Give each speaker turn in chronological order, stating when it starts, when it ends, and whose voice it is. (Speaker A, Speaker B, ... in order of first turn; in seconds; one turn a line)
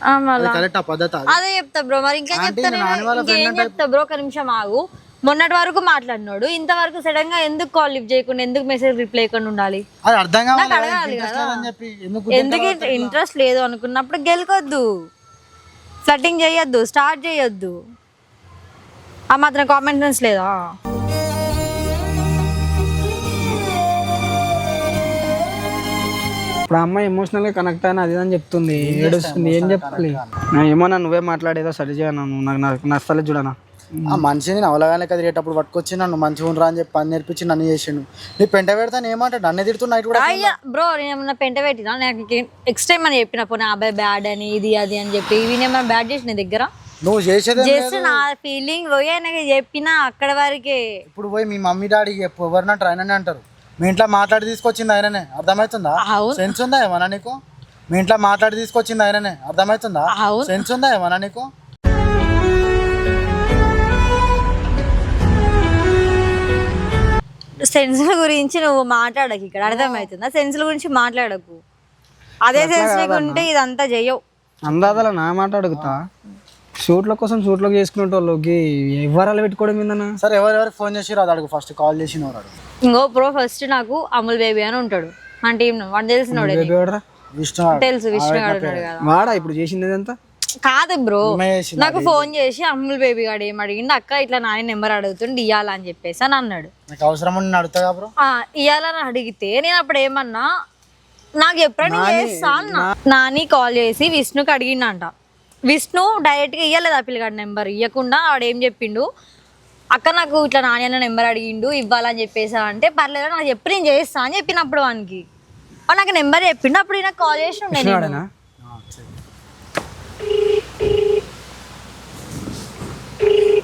Speaker A: 0.1-0.6
Speaker B: 0.4-1.4
Speaker A: 1.3-9.8
Speaker B: 2.3-3.8
Speaker B: 10.1-13.2
Speaker A: 10.5-11.7
Speaker A: 12.3-14.8
Speaker A: 16.1-17.7
Speaker A: 19.3-20.5
Speaker C: 26.7-34.2
Speaker B: 28.8-30.3
Speaker B: 34.1-40.5
Speaker A: 40.1-46.7
Speaker B: 47.0-48.2
Speaker A: 47.5-50.8
Speaker B: 51.1-57.4
Speaker A: 56.0-56.5
Speaker B: 57.9-61.5
Speaker A: 60.1-60.6
Speaker A: 67.6-71.6
Speaker A: 72.4-74.2
Speaker C: 72.5-73.5
Speaker C: 74.6-76.0
Speaker B: 74.7-75.0
Speaker C: 76.8-80.1
Speaker B: 80.2-82.5
Speaker A: 82.8-86.8
Speaker C: 86.3-87.0
Speaker B: 87.3-88.9
Speaker A: 87.7-89.4
Speaker C: 89.0-90.1
Speaker A: 90.6-96.7
Speaker B: 91.3-92.3
Speaker B: 96.9-98.1
Speaker A: 98.2-100.5
Speaker A: 101.4-105.1
Speaker C: 101.8-102.9
Speaker A: 105.7-109.1
Speaker A: 109.9-115.2
Speaker A: 115.9-118.2
Speaker C: 117.7-118.3
Speaker B: 118.6-119.1